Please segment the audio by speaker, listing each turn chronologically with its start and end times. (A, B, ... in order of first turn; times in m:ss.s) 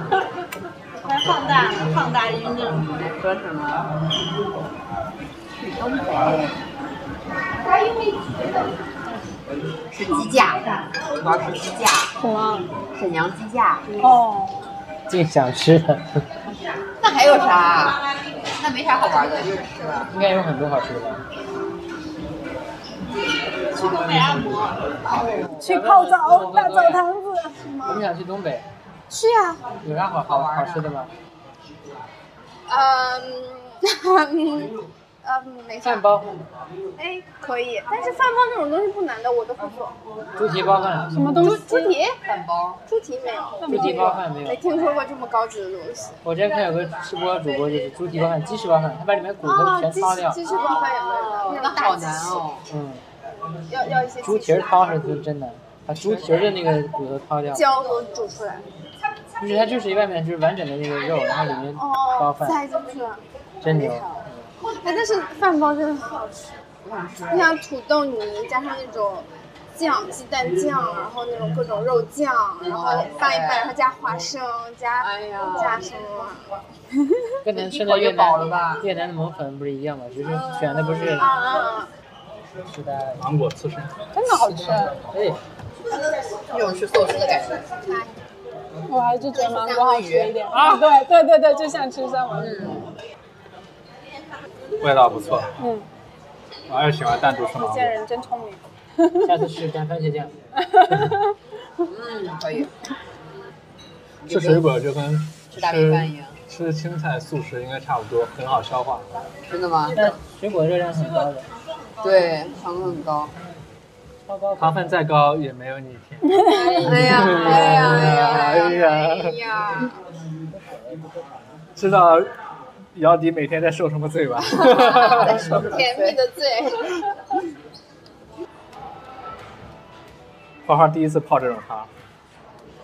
0:01.0-0:02.8 A
0:02.8-0:03.9 B
0:05.6-0:06.6 B
0:09.9-0:12.1 B
0:12.2-0:12.7 C
0:12.9-0:14.0 B
0:14.0-0:14.6 C
0:15.1-0:16.2 D
0:17.0-0:18.0 B
0:18.6-0:20.1 B
0:20.1-0:21.2 D
0:23.7-0:25.0 A
0:25.1-0:25.4 B
0:25.1-0:27.0 D
0:25.6-0:27.8 C
0:27.6-0:28.0 E
0:27.8-0:28.6 D
0:29.1-0:29.6 E
0:29.8-0:31.1 D
0:30.2-0:31.0 B
0:32.7-0:36.2 E
0:35.8-0:36.4 D
0:37.0-0:40.0 E
0:40.4-0:41.4 D
0:41.1-0:42.0 C
0:41.3-0:42.2 E
0:42.2-0:42.8 B
0:42.9-0:46.2 E
0:43.6-0:44.2 C
0:43.7-0:44.9 D
0:46.2-0:50.4 D
0:49.4-0:52.4 E
0:50.5-0:52.7 B
0:52.7-0:53.0 D
0:53.7-0:55.1 E
0:54.2-0:57.6 D
0:57.5-0:58.6 E
0:59.4-1:02.6 D
1:01.8-1:06.6 E
1:03.6-1:04.5 D
1:06.8-1:07.5 B
1:07.3-1:16.5 E
1:12.6-1:13.7 B
1:15.0-1:15.8 B
1:17.4-1:21.4 D
1:17.5-1:18.9 B
1:20.8-1:21.1 B
1:21.2-1:21.9 E
1:22.7-1:23.3 D
1:23.2-1:24.0 F
1:24.1-1:25.0 C
1:25.1-1:25.4 D
1:26.5-1:27.7 B
1:27.8-1:28.1 E
1:28.9-1:32.8 C
1:29.3-1:30.4 B
1:30.5-1:30.9 F
1:32.4-1:32.8 B
1:34.8-1:35.5 F
1:35.6-1:35.9 C
1:36.7-1:37.9 F
1:37.6-1:39.3 C
1:39.2-1:40.4 D
1:40.6-1:41.3 C
1:41.8-1:42.7 B
1:44.2-1:44.6 B
1:44.3-1:49.1 F
1:45.5-1:46.4 B
1:49.5-1:50.2 B
1:49.9-1:51.5 D
1:52.0-1:53.4 B
1:54.3-1:55.0 D
1:54.6-1:59.4 F
1:56.3-1:56.9 C
1:56.5-1:59.9 E
1:56.8-1:59.9 B
2:00.5-2:01.2 D
2:01.8-2:02.3 F
2:02.9-2:05.6 F
2:04.6-2:07.0 E
2:04.7-2:06.2 B
2:10.7-2:11.9 F